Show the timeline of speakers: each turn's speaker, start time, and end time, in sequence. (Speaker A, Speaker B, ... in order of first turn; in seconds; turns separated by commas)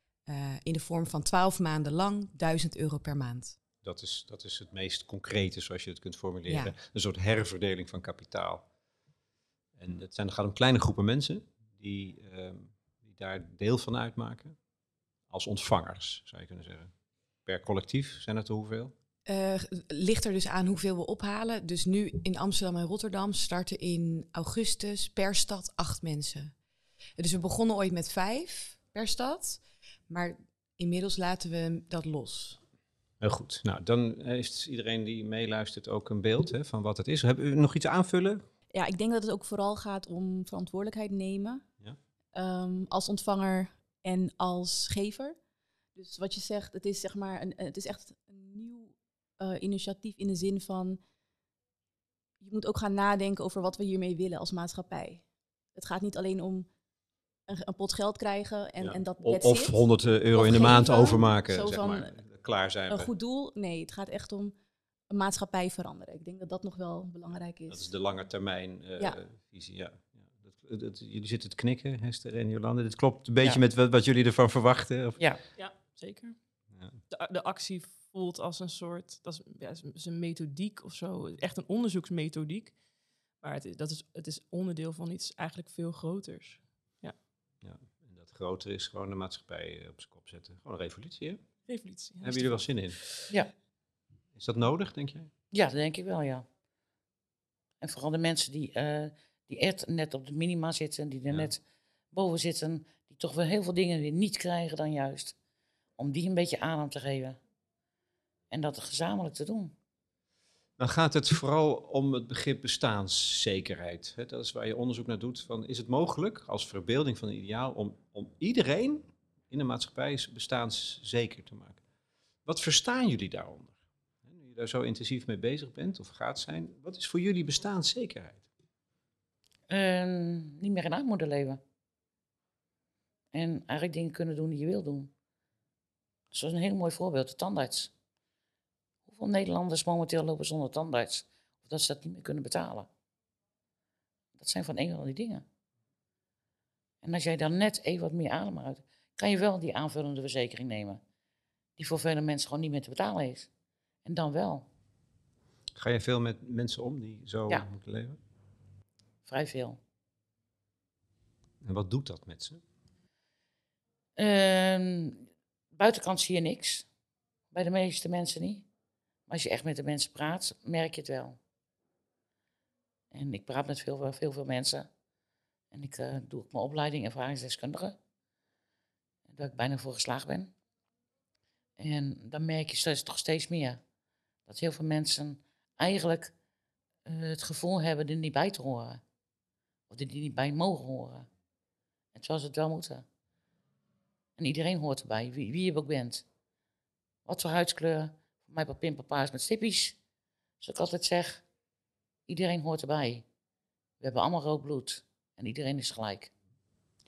Speaker A: 0.3-3.6, Speaker B: 3.8-8.7, Speaker A: 6.5-6.8, Speaker B: 9.8-14.6, Speaker B: 15.3-16.9, Speaker B: 17.4-18.9, Speaker A: 19.2-26.5, Speaker A: 27.2-32.6, Speaker B: 33.2-38.4, Speaker C: 38.7-41.6, Speaker C: 42.3-45.4, Speaker C: 46.0-51.0, Speaker C: 52.4-56.7, Speaker C: 57.5-62.2, Speaker B: 58.8-63.1, Speaker C: 62.9-64.5, Speaker C: 65.1-67.9, Speaker B: 67.7-75.2, Speaker D: 75.6-76.3, Speaker D: 77.1-82.8, Speaker D: 83.4-87.1, Speaker B: 87.6-91.4, Speaker D: 91.7-92.5, Speaker B: 92.2-93.0, Speaker B: 94.3-95.3, Speaker E: 95.5-96.5, Speaker E: 97.8-105.3, Speaker E: 106.0-107.4, Speaker E: 108.5-109.8, Speaker B: 110.8-121.8, Speaker B: 122.5-128.4, Speaker E: 129.7-131.6, Speaker E: 133.3-135.1, Speaker E: 136.3-137.9, Speaker E: 139.1-142.9, Speaker E: 144.3-145.4, Speaker E: 147.0-151.0, Speaker E: 151.8-153.5, Speaker E: 154.0-154.7, Speaker B: 155.8-158.2, Speaker E: 159.2-159.8, Speaker B: 161.6-162.6, Speaker E: 164.2-166.9, Speaker E: 167.5-168.7, Speaker E: 169.3-171.4, Speaker E: 173.1-174.9, Speaker E: 175.7-178.0, Speaker E: 179.3-180.5, Speaker E: 181.8-183.8, Speaker E: 184.5-186.3, Speaker E: 187.0-189.0, Speaker E: 189.9-191.3, Speaker E: 192.1-193.0, Speaker E: 194.4-196.2, Speaker E: 197.2-200.0, Speaker E: 200.6-201.4, Speaker E: 202.3-203.2, Speaker E: 204.0-206.3